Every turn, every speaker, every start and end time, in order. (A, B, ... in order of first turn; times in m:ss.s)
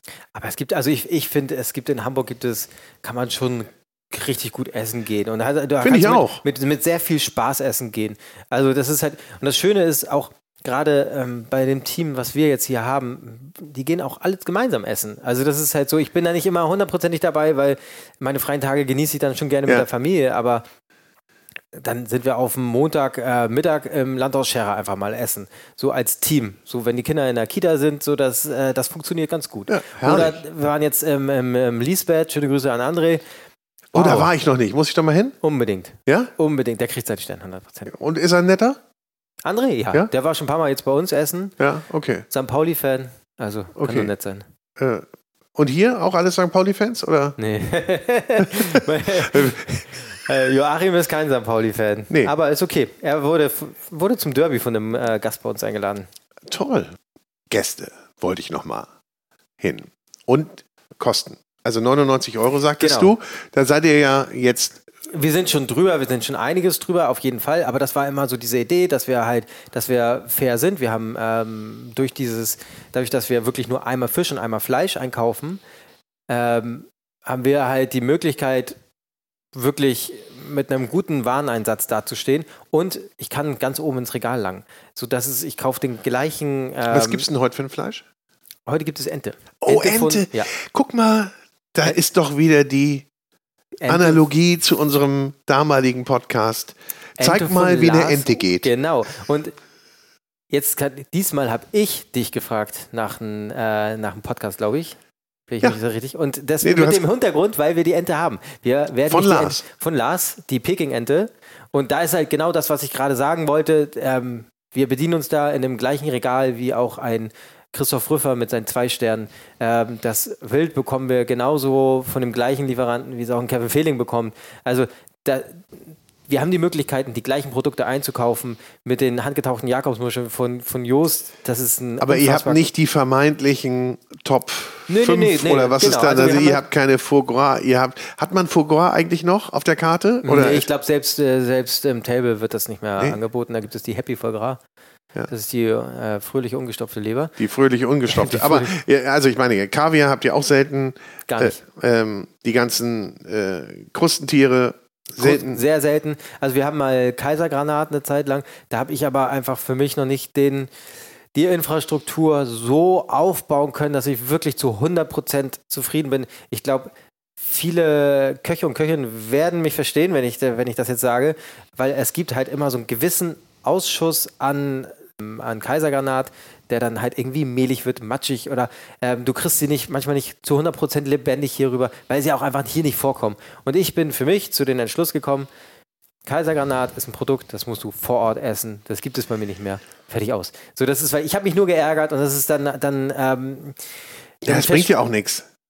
0:00.3-0:20.6 A
0:05.8-0:06.4 B
0:21.7-0:33.2 A
0:29.7-0:30.4 B
0:33.9-0:34.3 A
0:33.9-0:35.4 B
0:35.4-0:37.9 A
0:37.9-0:38.8 B
0:39.4-0:41.5 A
0:41.6-0:42.2 B
0:42.3-0:44.4 A
0:43.8-0:44.1 B
0:44.8-0:47.4 B
0:47.4-0:56.1 A
0:48.4-0:49.9 B
0:56.5-0:57.0 B
0:57.5-0:58.9 B
0:59.6-1:04.8 B
1:02.8-1:03.1 A
1:05.1-1:15.6 A
1:16.3-1:18.8 A
1:19.5-1:27.2 A
1:26.9-1:28.0 B
1:28.7-1:30.5 A
1:29.6-1:33.1 B
1:33.8-1:34.2 A
1:33.9-1:38.7 B
1:37.2-1:39.5 A
1:40.5-1:45.0 A
1:45.5-2:12.6 A
1:46.6-1:47.0 B
1:49.1-1:49.6 B
2:12.0-2:20.7 B
2:14.9-2:16.6 A
2:20.2-2:24.6 A
2:25.3-2:27.3 A
2:27.4-2:35.6 B
2:28.1-2:28.7 A
2:31.3-2:31.6 A
2:35.2-2:40.7 A
2:41.3-3:05.5 A
3:06.2-3:13.8 A
3:14.4-3:15.0 A
3:14.4-3:15.4 B